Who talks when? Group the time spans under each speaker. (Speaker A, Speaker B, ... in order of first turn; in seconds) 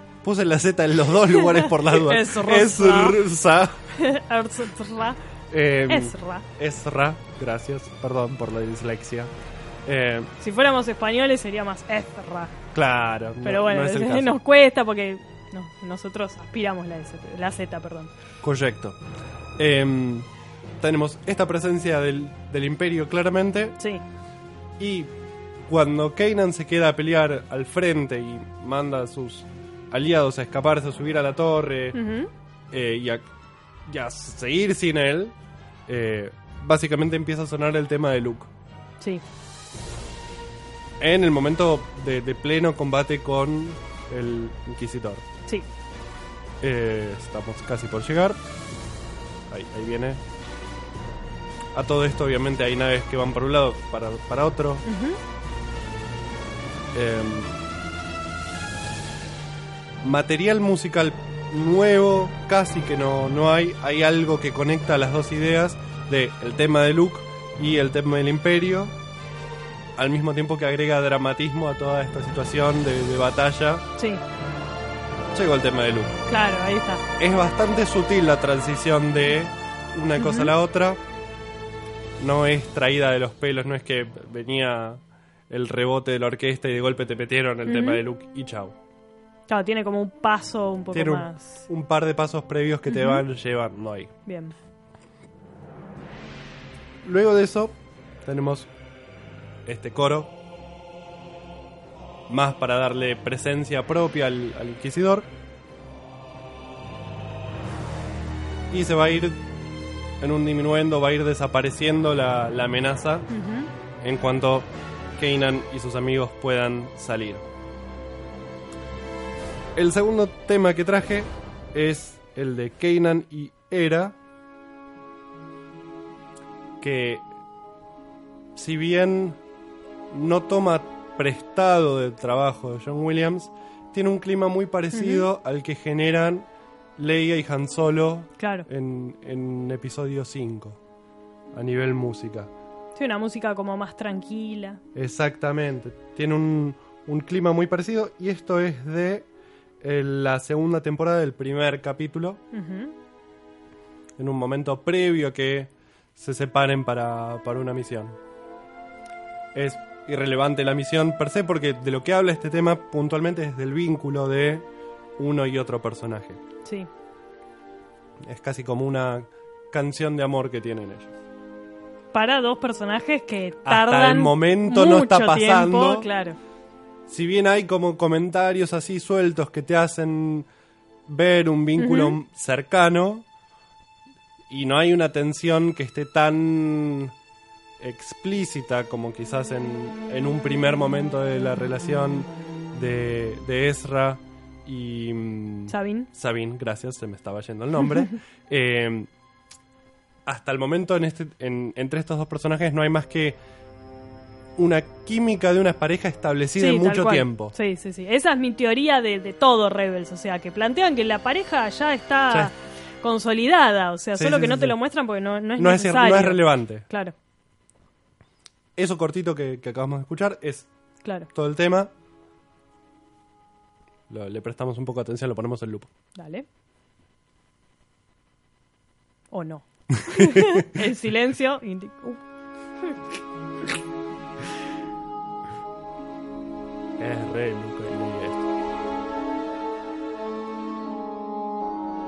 Speaker A: 0.2-3.8, 5.5-9.3, 9.9-10.3, 12.7-14.4, 18.4-19.0, 19.6-23.8, 24.8-25.1, 25.7-32.0, 32.7-33.2, 33.9-35.4, 35.9-38.5, 41.0-45.2, 46.6-48.4, 49.5-50.2, 51.7-54.8, 56.9-57.6, 60.0-69.0, 70.0-73.9, 75.3-76.2, 77.2-81.0, 82.2-88.8, 90.9-94.1, 97.0-98.7, 99.7-100.3, 102.3-105.3, 108.7-109.4, 110.2-113.3, 114.0-117.5, 119.8-124.2, 126.8-127.2, 128.6-129.4, 130.1-140.8, 141.5-142.5, 144.9-149.3, 149.8-152.4, 154.2-158.2, 159.6-166.4, 168.2-171.1, 173.7-176.1, 177.1-180.5, 181.1-183.3, 184.5-187.1, 187.8-199.1, 200.3-203.4, 204.6-207.5, 214.2-214.8, 215.6-216.8, 218.8-220.7, 221.3-221.9, 224.1-225.9, 230.1-230.6, 237.0-238.5
Speaker B: 1.4-3.2, 4.0-5.2, 5.9-6.4, 10.4-12.5, 13.4-18.1, 31.9-32.3, 54.9-55.2, 76.3-77.0, 80.2-80.5, 87.7-88.0, 89.5-91.6, 92.9-93.2, 94.3-94.5, 113.3-113.7, 134.9-135.3, 138.4-138.7, 143.0-144.8, 152.5-152.9, 172.1-176.4, 181.8-182.2, 195.7-196.1, 206.6-217.1, 221.0-221.3, 226.2-226.4, 229.3-232.2